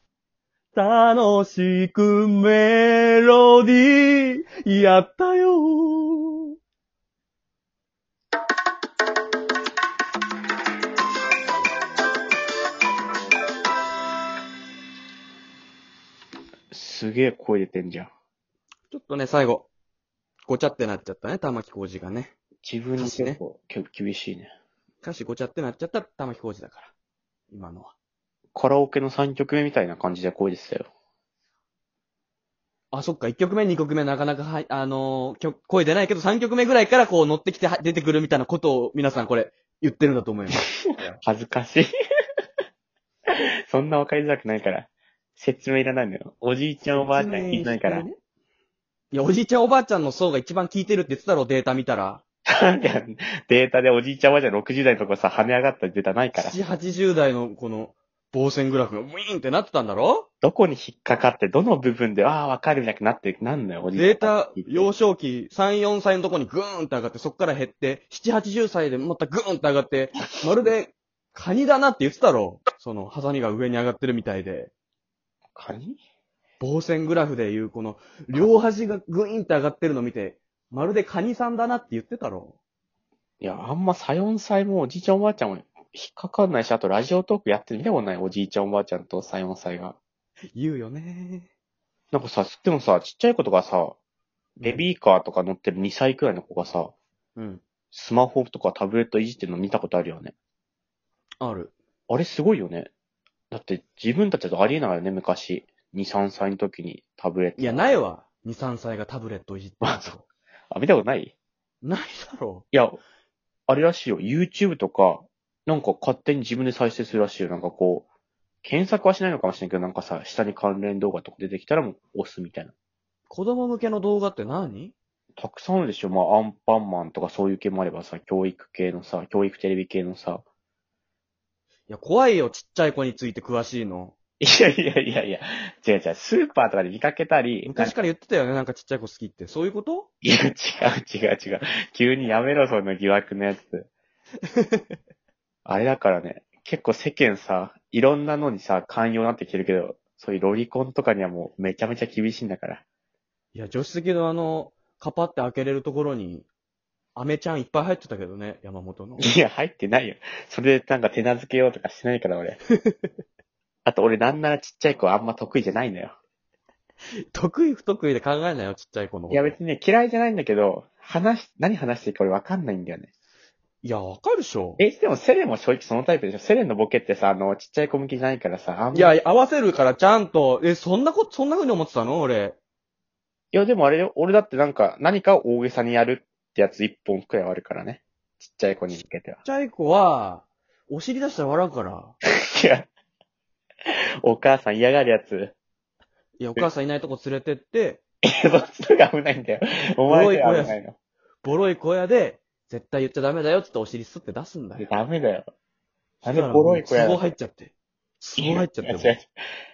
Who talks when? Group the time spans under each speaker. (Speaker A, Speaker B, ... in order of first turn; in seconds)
Speaker A: 0.7-6.5, 18.9-19.7, 20.5-22.3, 23.0-23.4, 25.0-26.9, 27.5-27.9, 32.9-41.2, 46.9-48.2, 49.1-52.2, 56.4-60.3, 63.9-74.7, 76.6-82.6, 90.5-91.5, 97.4-97.6, 101.4-101.7, 107.6-110.2, 111.8-112.7, 123.3-125.0, 131.9-134.2, 137.7-140.1, 144.6-144.8, 153.5-156.5, 157.2-159.3, 167.3-169.6, 173.8-174.8, 178.9-182.6, 189.4-192.2, 196.4-198.0, 200.1-200.8, 201.4-204.9, 206.2-209.2
Speaker B: 16.7-18.1, 22.6-24.5, 28.6-30.9, 41.2-41.9, 43.3-48.1, 52.5-56.6, 60.4-64.9, 75.6-76.0, 83.4-90.0, 92.1-94.0, 94.6-96.9, 97.9-100.3, 102.1-102.9, 103.5-108.0, 109.8-110.2, 110.7-111.3, 112.7-113.0, 113.7-118.1, 118.6-122.7, 125.4-130.4, 134.4-138.0, 140.2-143.9, 145.7-152.8, 159.2-162.6, 163.8-166.2, 169.3-173.1, 174.8-179.1, 183.5-189.4, 192.2-192.9, 194.2-195.5, 198.2-201.0, 204.8-205.5, 206.2-207.3, 208.4-209.3